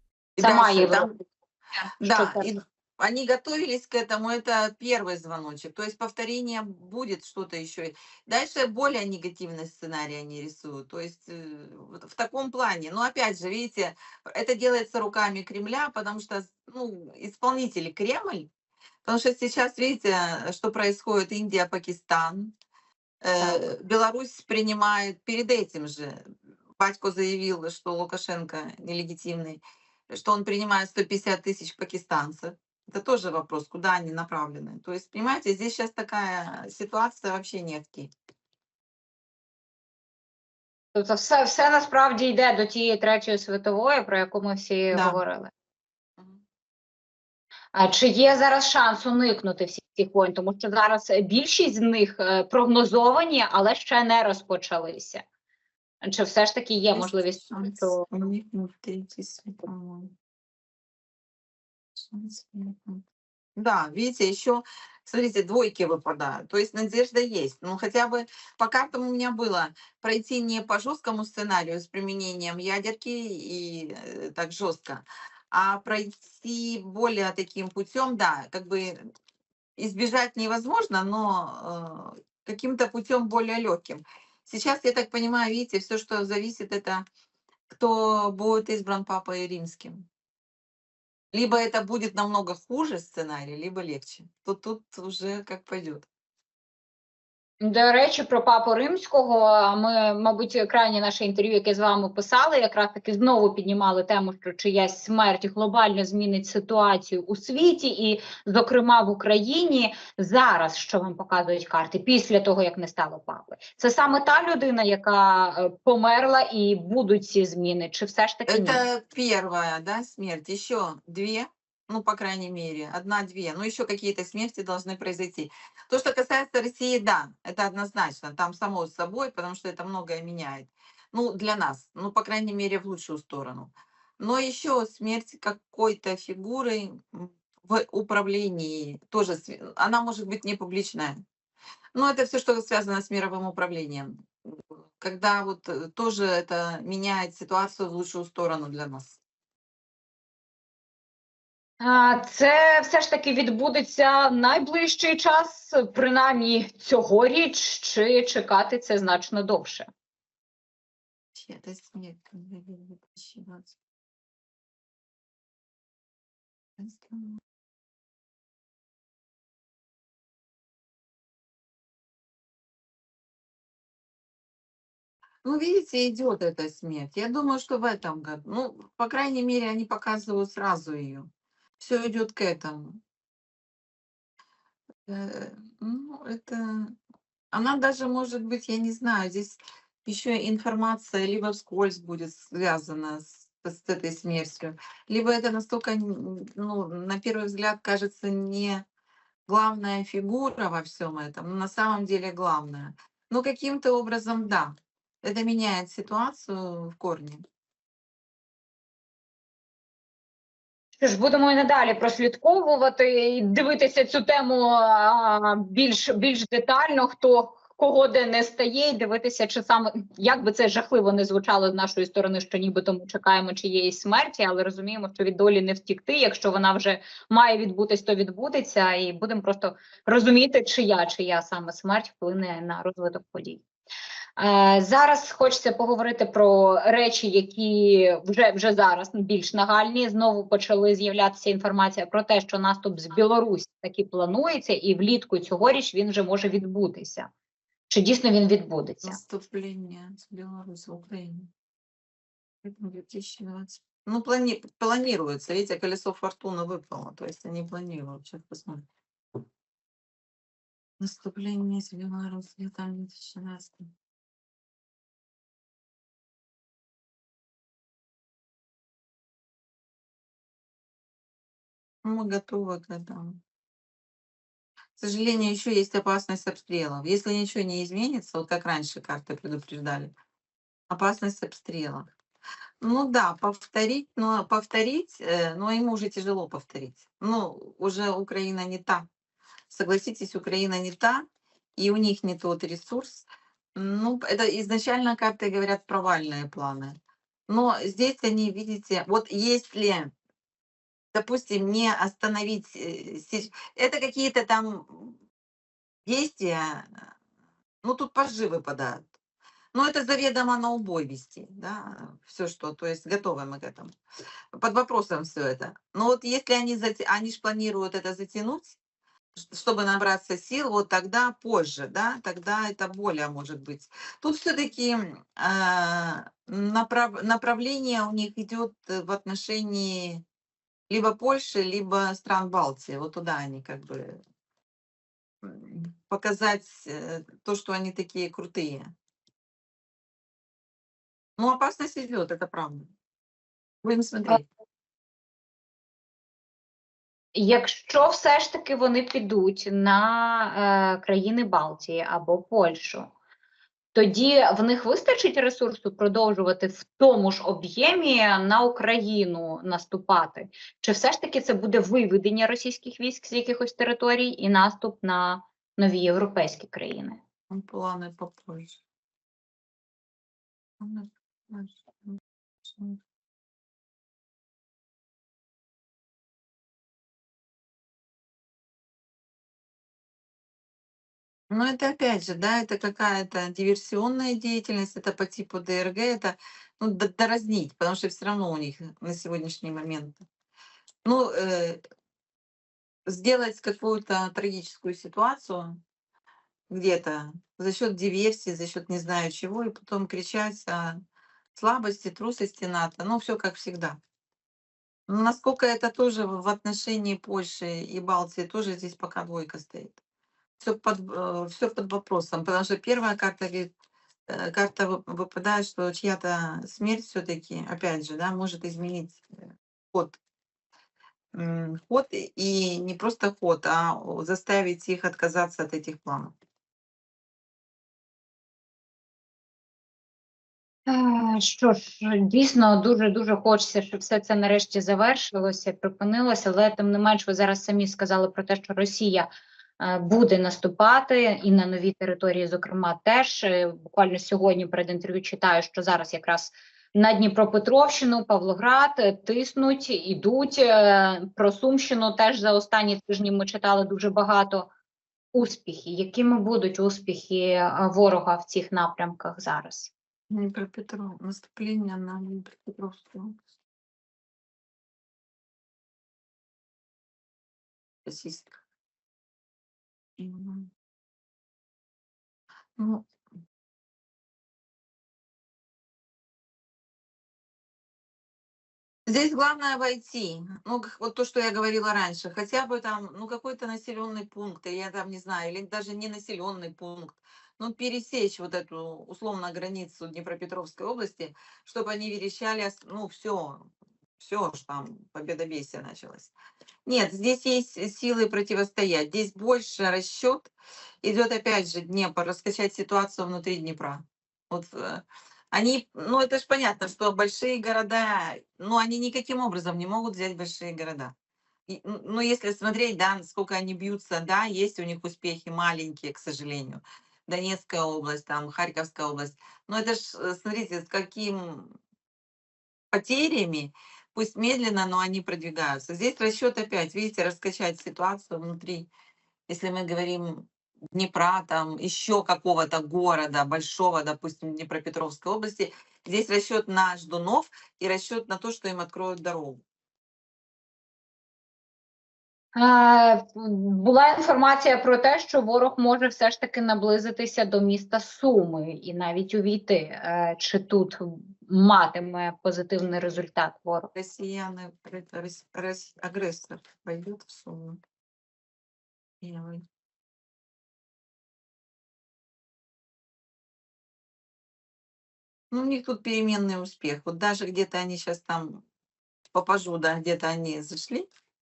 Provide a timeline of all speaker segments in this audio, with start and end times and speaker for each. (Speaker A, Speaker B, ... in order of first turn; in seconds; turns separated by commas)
Speaker A: 0.4-1.1, Speaker B: 0.4-1.1, Speaker B: 1.8-2.6, Speaker A: 2.0-18.5, Speaker A: 19.1-22.5, Speaker A: 23.2-26.2, Speaker B: 23.4-23.7, Speaker A: 26.8-38.1, Speaker B: 40.9-45.5, Speaker A: 44.9-45.2, Speaker B: 47.7-55.2, Speaker B: 56.0-58.1, Speaker A: 56.9-60.1, Speaker A: 62.0-63.0, Speaker A: 63.6-79.0, Speaker A: 79.8-87.0, Speaker A: 87.7-90.1, Speaker A: 91.3-96.1, Speaker B: 97.6-118.8, Speaker A: 118.5-141.2, Speaker A: 141.9-144.3, Speaker A: 145.0-149.2, Speaker B: 151.8-159.9, Speaker A: 161.3-163.7, Speaker A: 166.8-167.4, Speaker A: 175.4-181.3, Speaker A: 181.8-183.0, Speaker A: 185.1-186.9, Speaker A: 187.5-198.8, Speaker A: 199.5-207.4, Speaker B: 211.0-233.6, Speaker B: 234.4-247.3, Speaker B: 247.9-249.2, Speaker A: 249.0-251.5, Speaker A: 252.6-258.8, Speaker A: 261.0-263.9, Speaker A: 272.0-273.4, Speaker A: 275.0-280.1, Speaker A: 280.9-282.1, Speaker A: 282.8-289.1, Speaker A: 289.7-291.2, Speaker A: 291.8-296.9, Speaker A: 297.5-300.1, Speaker A: 301.1-305.2, Speaker A: 306.1-307.1, Speaker A: 307.8-309.1, Speaker A: 309.7-313.9, Speaker A: 314.6-318.8, Speaker A: 319.4-330.2, Speaker A: 330.9-334.2, Speaker A: 335.4-338.9, Speaker A: 341.4-342.9, Speaker A: 343.8-344.4, Speaker B: 347.4-353.1, Speaker B: 353.9-367.2, Speaker A: 367.5-368.8, Speaker A: 370.8-373.0, Speaker A: 381.5-390.2, Speaker A: 391.1-391.8, Speaker A: 393.1-395.8, Speaker A: 396.7-401.0, Speaker A: 401.6-404.0, Speaker A: 405.1-410.0, Speaker A: 410.6-413.7, Speaker A: 414.3-420.2, Speaker A: 421.3-426.3, Speaker B: 430.9-454.7, Speaker B: 455.3-459.9, Speaker A: 460.3-463.4, Speaker A: 468.1-468.6, Speaker A: 470.2-470.7, Speaker A: 472.8-473.1, Speaker A: 479.1-496.3, Speaker A: 496.9-500.5, Speaker A: 501.0-511.1, Speaker A: 511.7-521.7, Speaker A: 522.9-528.9, Speaker A: 529.5-539.6, Speaker B: 542.5-553.9, Speaker A: 553.9-557.8, Speaker A: 559.2-559.6, Speaker A: 565.5-568.6, Speaker A: 569.3-571.1